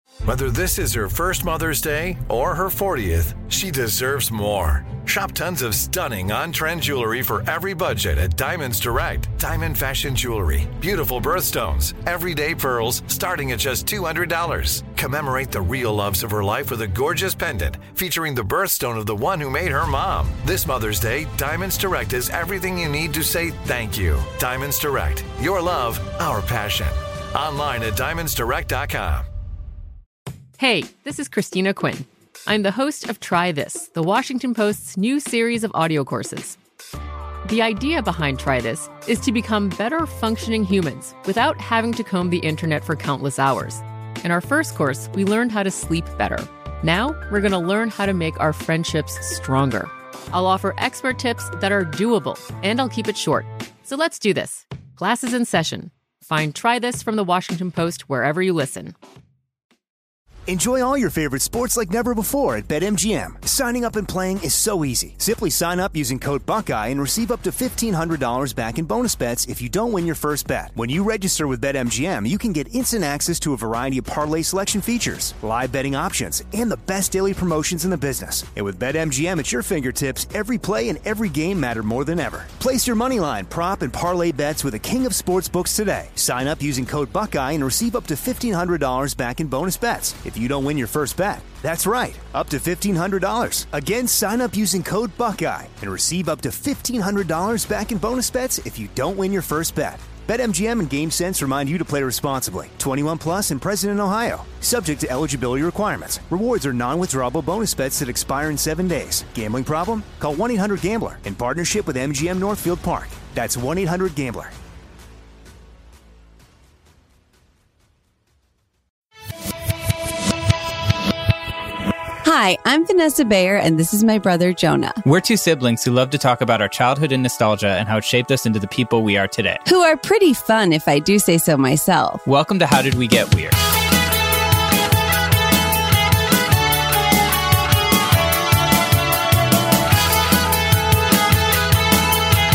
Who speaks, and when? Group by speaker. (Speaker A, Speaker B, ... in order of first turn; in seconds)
Speaker A: 0.3-29.3
Speaker B: 30.6-36.6, 37.5-59.0
Speaker C: 60.5-114.5
Speaker D: 122.2-125.0, 129.7-132.2
Speaker E: 125.0-129.6, 132.3-133.6